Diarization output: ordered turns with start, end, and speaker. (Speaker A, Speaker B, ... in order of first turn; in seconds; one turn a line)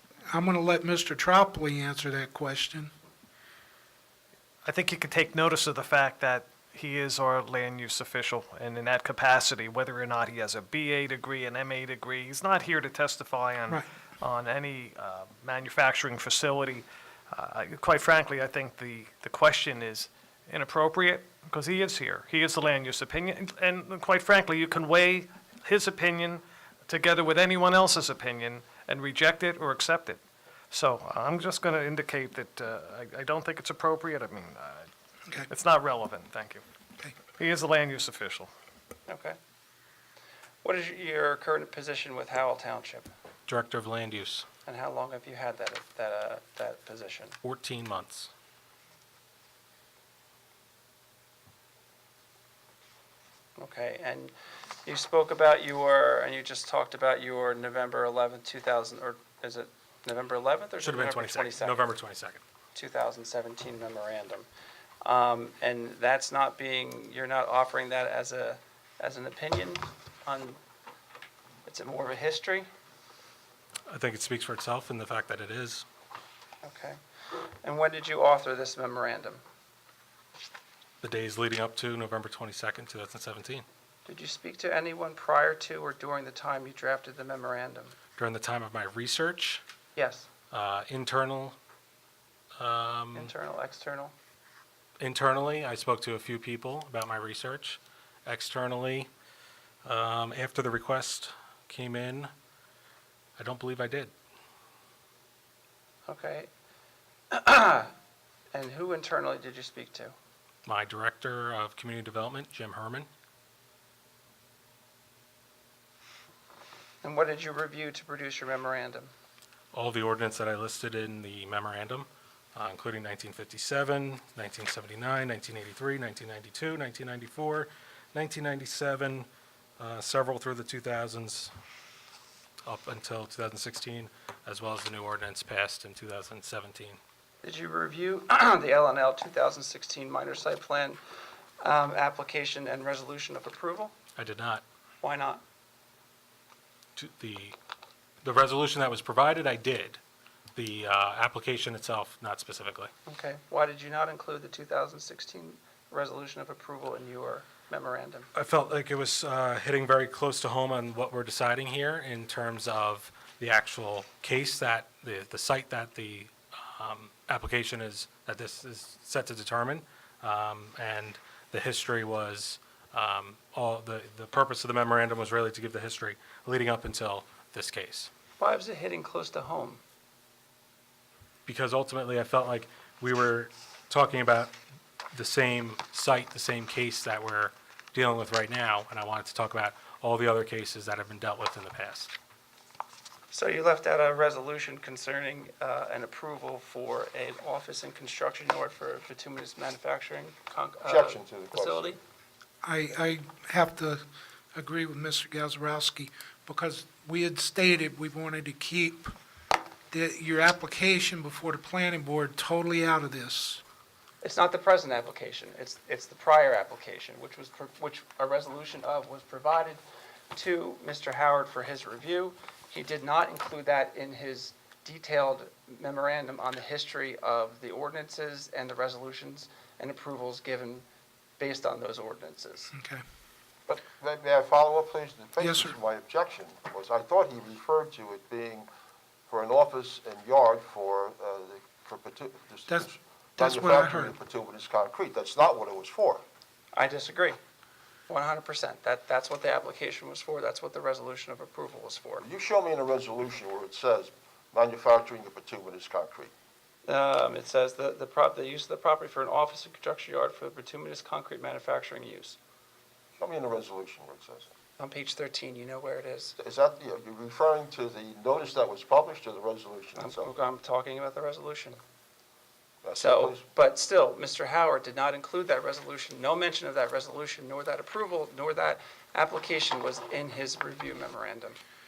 Speaker A: 0.3-2.9
Speaker B: 4.6-34.9
Speaker B: 35.5-36.6
Speaker B: 37.2-38.5
Speaker C: 39.1-39.4
Speaker C: 40.6-43.1
Speaker D: 43.5-44.5
Speaker C: 44.6-47.4
Speaker D: 47.4-48.3
Speaker C: 53.6-54.3
Speaker C: 54.8-61.8
Speaker D: 60.8-62.4
Speaker C: 62.7-64.5
Speaker C: 65.0-70.6
Speaker C: 71.7-72.7
Speaker D: 73.9-75.8
Speaker C: 76.6-79.4
Speaker D: 81.0-83.6
Speaker C: 84.0-88.0
Speaker D: 88.2-89.6
Speaker C: 90.0-90.3
Speaker D: 90.5-91.5
Speaker D: 92.6-93.3
Speaker C: 93.1-94.1
Speaker D: 95.0-99.1
Speaker D: 99.8-102.3
Speaker D: 103.4-104.1
Speaker C: 106.1-106.5
Speaker C: 107.3-107.9
Speaker C: 108.5-110.1
Speaker D: 110.7-113.1
Speaker C: 117.0-119.1
Speaker D: 119.7-129.3
Speaker D: 129.8-131.5
Speaker D: 132.6-137.0
Speaker C: 137.4-141.0
Speaker C: 141.6-143.9
Speaker D: 144.2-144.6
Speaker C: 145.0-145.4
Speaker D: 147.0-147.6
Speaker D: 148.2-150.0
Speaker D: 150.6-152.9
Speaker C: 153.1-158.3
Speaker D: 158.3-178.1
Speaker C: 178.4-179.8
Speaker D: 181.4-184.5
Speaker D: 185.1-192.1
Speaker C: 193.3-202.0
Speaker E: 200.8-201.9
Speaker A: 202.6-204.0
Speaker A: 204.5-209.1
Speaker A: 209.9-213.6
Speaker C: 214.2-219.8
Speaker C: 220.3-230.8
Speaker C: 231.4-232.7
Speaker A: 232.7-233.0
Speaker E: 233.7-238.7
Speaker A: 235.4-235.7
Speaker E: 239.3-246.2
Speaker A: 243.4-244.1
Speaker C: 246.7-247.4
Speaker C: 248.1-252.2
Speaker E: 252.2-256.3
Speaker C: 256.9-262.4
Speaker E: 263.2-264.5
Speaker C: 264.8-266.4
Speaker E: 266.4-270.3
Speaker C: 270.0-271.8
Speaker E: 272.8-273.4
Speaker C: 273.0-281.6